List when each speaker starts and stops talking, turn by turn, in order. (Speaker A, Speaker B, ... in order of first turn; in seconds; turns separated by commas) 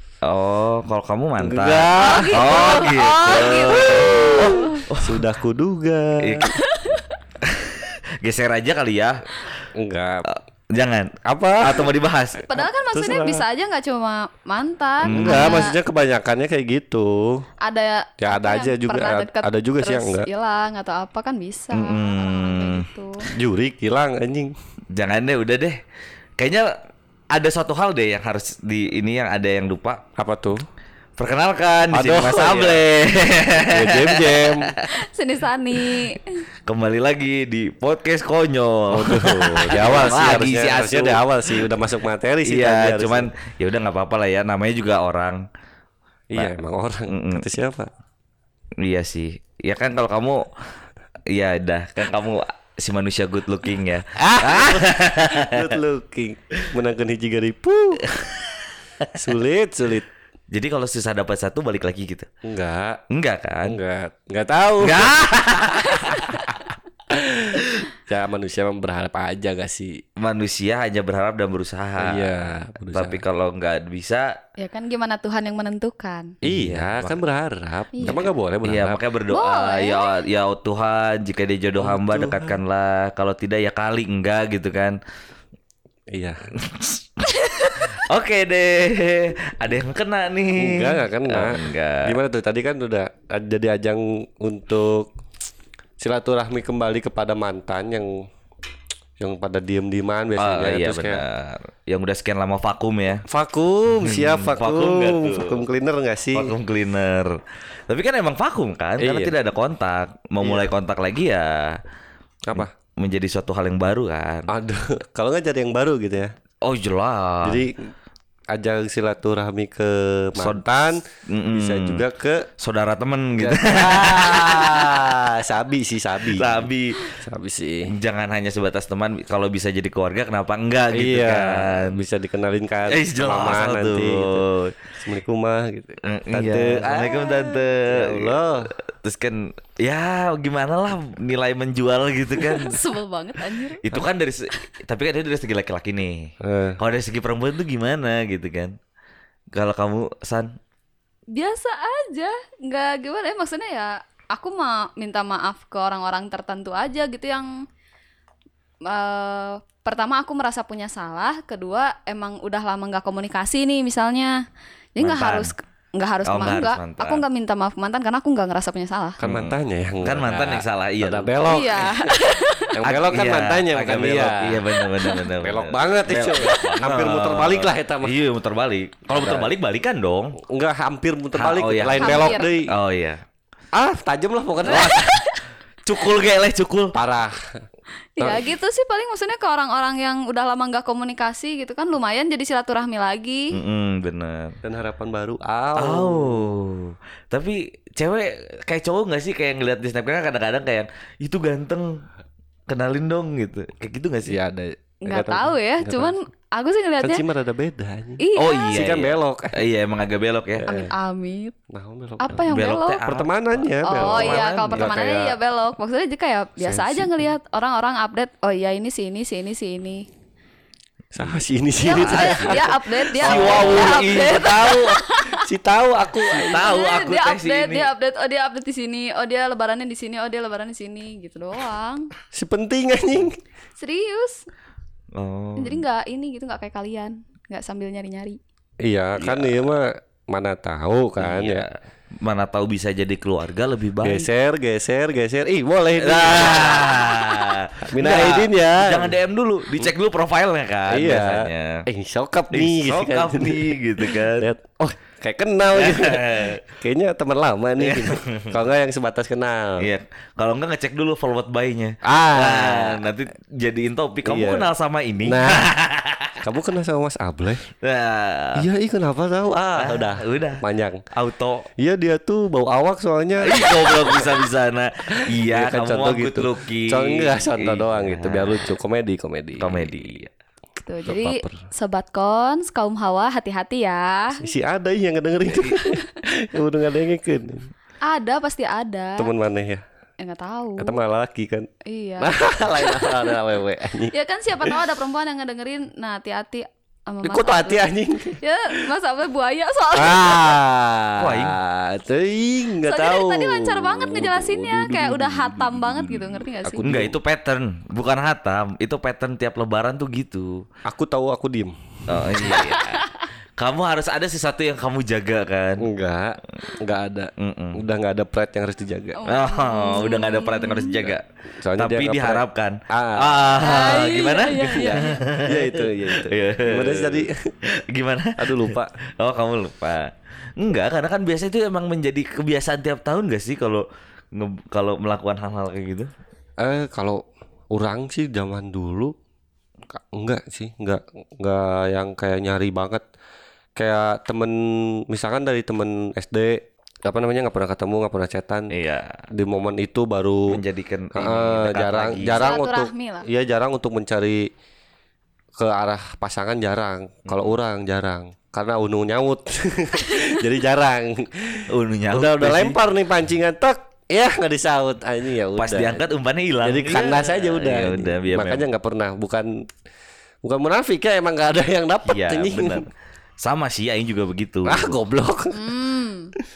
Speaker A: 0.2-5.3, Speaker B: 1.4-6.5, Speaker C: 2.0-4.8, Speaker A: 6.2-6.6, Speaker C: 6.6-7.1, Speaker A: 7.4-9.2, Speaker B: 9.7-10.3, Speaker A: 10.3-12.5, Speaker B: 11.2-11.9, Speaker C: 12.5-15.8, Speaker B: 12.5-13.4, Speaker A: 15.0-15.7, Speaker B: 15.1-17.4, Speaker C: 17.6-23.3, Speaker B: 18.2-20.3, Speaker A: 21.7-22.9, Speaker B: 23.3-24.5, Speaker A: 24.9-25.8, Speaker A: 26.4-26.8, Speaker A: 27.3-30.0, Speaker B: 30.2-30.6, Speaker A: 31.2-34.9, Speaker B: 31.9-32.9, Speaker B: 33.6-34.7, Speaker C: 34.9-36.5, Speaker A: 35.8-41.7, Speaker B: 38.9-43.3, Speaker A: 42.5-45.5, Speaker B: 46.3-47.9, Speaker A: 47.1-47.5, Speaker A: 48.8-50.5, Speaker A: 51.3-55.8, Speaker B: 54.2-58.1, Speaker A: 58.1-59.1, Speaker B: 59.1-60.1, Speaker A: 60.5-62.3, Speaker B: 62.4-63.0, Speaker A: 63.1-63.8, Speaker B: 63.6-66.1, Speaker A: 64.8-66.4, Speaker B: 67.1-70.0, Speaker A: 70.2-74.4, Speaker B: 72.0-73.2, Speaker C: 74.6-76.3, Speaker B: 76.4-79.0, Speaker A: 76.5-77.2, Speaker C: 78.0-78.2, Speaker A: 78.1-85.0, Speaker C: 79.3-80.2, Speaker B: 81.8-82.6, Speaker B: 86.1-86.5, Speaker A: 86.6-92.2, Speaker B: 90.6-95.1, Speaker B: 96.0-98.3, Speaker B: 99.2-101.2, Speaker A: 100.4-103.2, Speaker B: 103.3-106.5, Speaker A: 104.0-105.6, Speaker A: 106.3-111.8, Speaker B: 109.0-109.3, Speaker B: 110.4-110.7, Speaker A: 112.5-114.5, Speaker B: 114.5-116.3, Speaker A: 116.6-117.7, Speaker B: 117.4-117.9, Speaker B: 118.5-122.5, Speaker A: 120.4-122.0, Speaker A: 122.6-125.3, Speaker B: 123.4-127.9, Speaker A: 126.3-127.0, Speaker A: 127.9-132.0, Speaker B: 130.9-138.7, Speaker A: 132.9-134.9, Speaker A: 136.0-142.8, Speaker C: 142.4-143.9, Speaker A: 143.8-148.8, Speaker B: 146.4-146.8, Speaker A: 149.5-150.6, Speaker C: 151.3-157.7, Speaker C: 158.8-164.4, Speaker C: 165.0-169.2, Speaker A: 165.0-165.5, Speaker A: 166.2-167.2, Speaker B: 169.2-172.2, Speaker A: 169.2-171.3, Speaker C: 171.4-172.8, Speaker B: 172.7-174.6, Speaker A: 172.8-180.4, Speaker C: 174.8-175.3, Speaker B: 175.4-178.2, Speaker B: 179.1-179.5, Speaker B: 180.5-182.7, Speaker A: 181.3-183.2, Speaker C: 181.9-182.5, Speaker B: 183.7-185.1, Speaker C: 184.7-185.4, Speaker A: 184.7-185.2, Speaker A: 185.8-187.0, Speaker B: 186.9-187.6, Speaker C: 188.2-193.6, Speaker A: 193.5-194.6, Speaker B: 194.6-196.5, Speaker A: 195.8-202.0, Speaker A: 202.7-204.4, Speaker B: 204.2-206.2, Speaker C: 205.1-207.2, Speaker B: 207.0-208.2, Speaker C: 208.2-208.8, Speaker A: 208.4-210.8, Speaker B: 208.7-209.6, Speaker B: 210.6-210.9, Speaker C: 210.7-211.6, Speaker B: 211.7-212.4, Speaker C: 212.2-213.0, Speaker A: 212.3-215.1, Speaker B: 213.0-215.4, Speaker C: 213.9-220.1, Speaker B: 216.6-217.2, Speaker B: 221.1-224.6, Speaker C: 221.8-225.4, Speaker A: 221.9-225.0, Speaker B: 225.3-226.7, Speaker A: 226.3-227.9, Speaker C: 226.3-232.1, Speaker B: 232.3-233.4, Speaker C: 233.8-234.4, Speaker A: 235.1-235.8, Speaker C: 235.6-238.4, Speaker B: 238.8-241.7, Speaker A: 239.2-239.7, Speaker A: 241.2-244.3, Speaker B: 244.0-247.2, Speaker A: 246.0-251.9, Speaker B: 247.8-249.2, Speaker B: 250.9-259.9, Speaker A: 252.5-254.5, Speaker A: 255.7-256.6, Speaker A: 257.8-258.6, Speaker A: 259.8-266.4, Speaker B: 262.0-263.0, Speaker B: 264.2-264.7, Speaker B: 265.2-265.7, Speaker B: 266.4-267.7, Speaker A: 267.8-268.7, Speaker B: 268.6-271.0, Speaker A: 269.8-271.7, Speaker B: 271.8-274.4, Speaker A: 273.4-278.8, Speaker B: 275.1-280.1, Speaker A: 279.6-280.3, Speaker C: 280.8-284.4, Speaker B: 281.1-281.7, Speaker B: 284.4-287.7, Speaker C: 288.0-289.3, Speaker B: 289.2-289.8, Speaker C: 290.2-291.0, Speaker B: 290.8-291.7, Speaker C: 291.9-293.3, Speaker B: 292.2-294.8, Speaker C: 294.1-300.6, Speaker B: 297.2-298.8, Speaker B: 299.9-307.1, Speaker A: 301.2-301.6, Speaker C: 302.9-306.9, Speaker A: 306.8-310.6, Speaker B: 310.9-312.6, Speaker A: 312.1-315.9, Speaker C: 312.5-313.3, Speaker B: 315.8-319.2, Speaker A: 317.4-317.8, Speaker C: 319.2-321.1, Speaker A: 319.2-321.2, Speaker B: 321.6-323.6, Speaker A: 321.8-336.1, Speaker C: 323.6-325.2, Speaker B: 324.6-327.5, Speaker B: 328.4-329.0, Speaker B: 336.6-339.1, Speaker B: 339.9-343.1, Speaker B: 343.8-348.7, Speaker A: 348.7-349.2, Speaker B: 349.3-350.6, Speaker A: 350.5-352.6, Speaker B: 351.1-354.5, Speaker C: 352.3-353.3, Speaker B: 355.6-366.1, Speaker A: 357.3-357.6, Speaker A: 361.7-362.8, Speaker A: 365.6-368.7, Speaker B: 366.6-369.6, Speaker B: 370.4-372.9, Speaker A: 372.1-372.9, Speaker A: 373.4-375.0, Speaker B: 374.6-375.7, Speaker C: 375.5-376.3